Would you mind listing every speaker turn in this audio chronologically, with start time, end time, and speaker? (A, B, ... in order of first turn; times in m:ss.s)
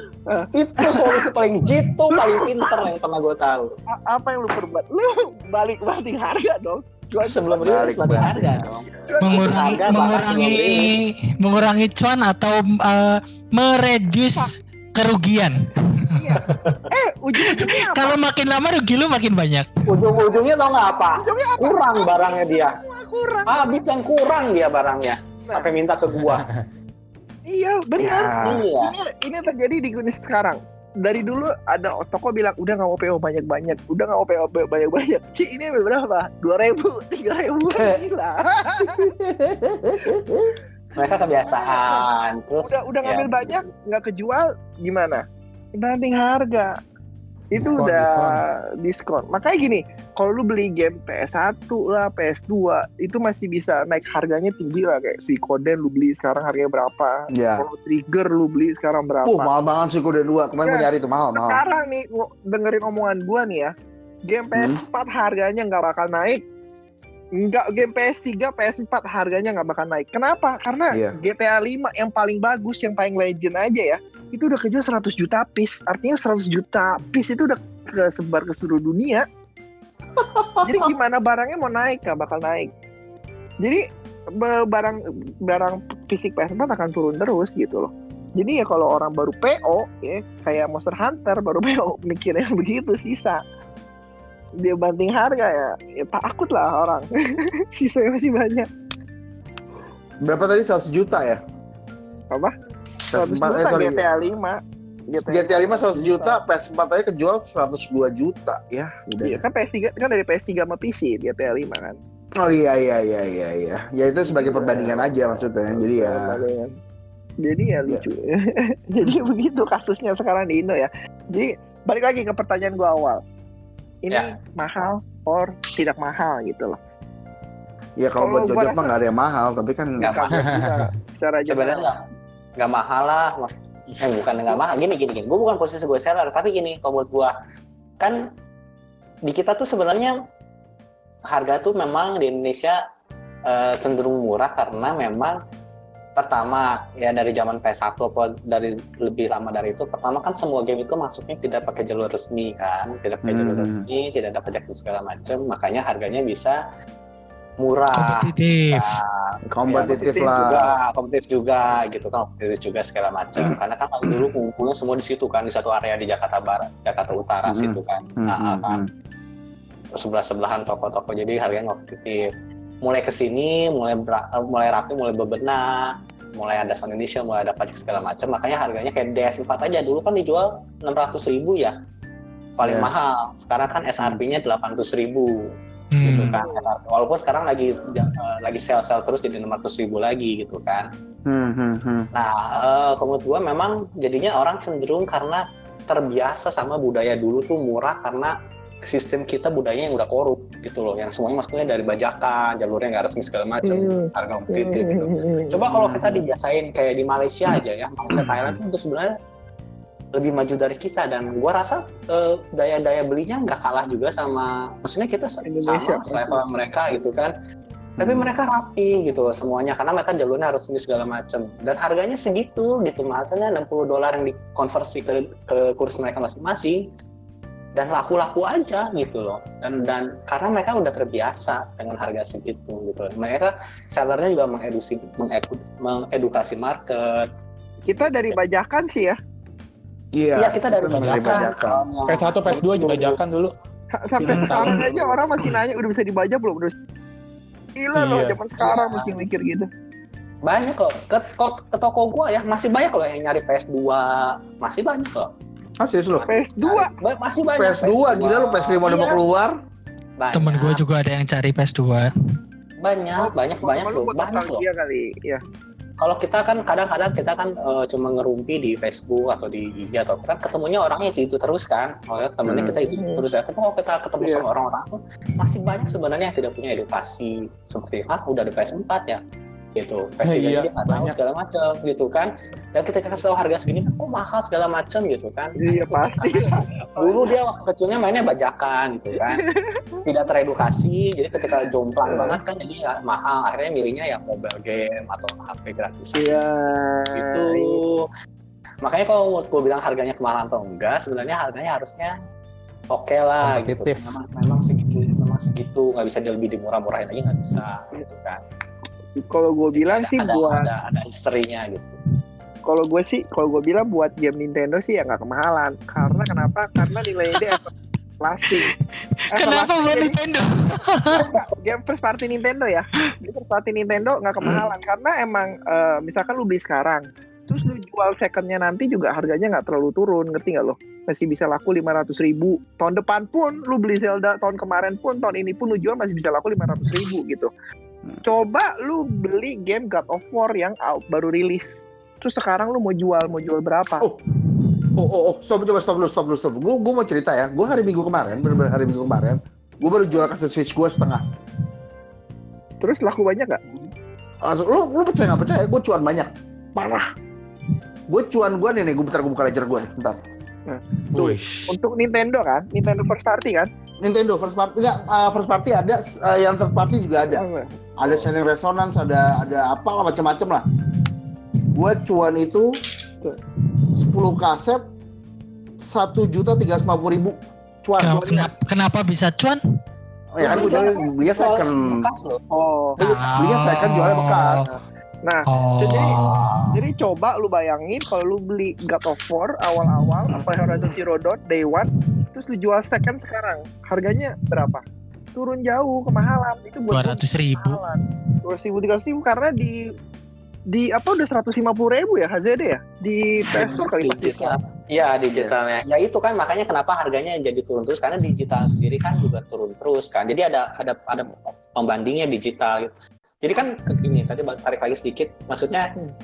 0:00.5-0:03.7 A
0:02.3-0:02.7 B
0:03.9-0:07.6 B
0:07.2-0:10.9 A
0:07.6-0:09.0 C
0:09.1-0:10.4 B
0:09.2-0:16.6 D
0:16.1-0:18.2 B
0:16.5-0:16.8 A
0:17.4-0:20.0 D
0:19.9-0:22.8 A
0:21.2-0:23.7 B
0:23.5-0:26.4 A
0:26.2-0:26.6 E
0:27.5-0:39.1 B
0:28.0-0:28.6 C
0:28.4-0:28.9 A
0:38.7-0:40.6 C
0:41.0-0:43.6 A
0:41.5-0:42.0 B
0:42.6-0:45.2 B
0:45.8-0:46.8 B
0:47.5-0:59.5 B
0:47.6-0:48.4 E
0:57.3-0:57.6 C
0:59.2-1:01.6 C
1:00.6-1:03.7 B
1:04.3-1:06.4 B
1:04.5-1:04.8 C
1:07.4-1:19.2 B
1:20.2-1:20.9 C
1:20.6-1:22.7 B
1:24.3-1:33.4 B
1:34.6-1:38.7 B
1:40.2-1:41.4 C
1:43.1-1:44.1 C
1:43.1-1:44.6 B
1:45.1-1:46.4 B
1:45.2-1:49.4 C
1:49.2-1:52.0 B
1:52.4-1:56.4 C
1:54.2-1:56.7 B
1:57.4-2:03.2 B
2:04.0-2:06.8 B
2:08.0-2:10.1 C
2:08.2-2:08.9 B
2:10.0-2:10.4 A
2:10.0-2:11.9 B
2:10.3-2:10.9 E
2:11.4-2:12.0 A
2:12.6-2:17.3 A
2:19.2-2:20.2 A
2:21.3-2:22.8 A
2:23.5-2:25.4 A
2:26.2-2:36.6 A
2:33.2-2:33.8 C
2:37.6-2:48.8 A
2:37.9-2:39.0 D
2:39.5-2:40.7 C
2:40.0-2:40.6 B
2:43.4-2:44.3 C
2:47.5-2:48.9 C
2:50.0-2:52.3 A
2:52.8-3:01.7 A
3:02.6-3:05.3 A
3:02.6-3:02.9 C
3:05.9-3:06.4 D
3:06.0-3:10.9 A
3:06.1-3:06.4 C
3:11.2-3:12.1 C
3:12.1-3:18.3 A
3:18.8-3:29.1 A
3:23.6-3:25.6 B
3:25.7-3:26.2 C
3:30.1-3:37.3 A
3:35.4-3:36.4 B
3:38.0-3:38.3 C
3:38.0-3:46.8 A
3:47.7-3:57.3 A
3:57.9-3:59.2 B
3:58.0-3:58.3 A
4:00.1-4:01.8 C
4:00.4-4:03.2 A
4:00.9-4:01.5 E
4:02.1-4:03.5 E
4:04.0-4:06.7 B
4:04.2-4:04.8 C
4:04.3-4:05.4 A
4:07.8-4:09.7 B
4:08.0-4:08.4 E
4:08.6-4:09.1 A
4:10.4-4:15.3 A
4:15.8-4:16.2 C
4:16.1-4:19.2 A
4:16.3-4:16.9 B
4:17.5-4:19.5 C
4:20.2-4:20.8 A
4:20.3-4:22.1 D
4:22.8-4:24.6 A
4:23.2-4:25.4 B
4:26.0-4:39.2 A
4:32.4-4:32.8 C
4:32.7-4:33.2 B
4:34.2-4:34.4 B
4:39.8-4:49.4 A
4:40.2-4:41.2 E
4:45.6-4:47.3 B
4:49.2-4:50.0 B
4:50.0-4:56.3 A
4:52.1-4:52.4 B
4:56.1-4:57.8 B
4:57.1-4:58.0 A
4:58.8-5:02.1 A
5:02.9-5:08.4 A
5:03.4-5:04.0 E
5:09.2-5:10.7 B
5:09.7-5:12.0 A
5:12.6-5:18.7 B
5:16.8-5:17.6 D
5:19.3-5:21.3 D
5:19.3-5:20.2 B
5:21.1-5:37.5 B
5:38.2-5:44.0 B
5:44.9-5:51.2 C
5:52.8-5:53.6 B
5:54.4-5:57.1 C
5:58.1-6:00.2 C
6:00.7-6:03.7 B
6:01.1-6:01.7 E
6:04.0-6:07.4 C
6:07.3-6:07.7 B
6:08.0-6:10.6 C
6:11.7-6:12.7 C
6:14.0-6:14.8 C
6:15.9-6:18.5 C
6:18.0-6:19.6 D
6:20.3-6:22.0 C
6:20.4-6:21.0 B
6:20.4-6:22.4 A
6:22.5-6:23.0 B
6:23.0-6:24.7 D
6:23.0-6:24.6 C
6:25.2-6:26.2 B
6:25.5-6:26.9 D
6:26.7-6:34.8 B
6:30.3-6:30.7 C
6:35.4-6:39.8 B
6:36.9-6:37.8 D
6:40.7-6:44.6 B
6:43.5-6:55.9 A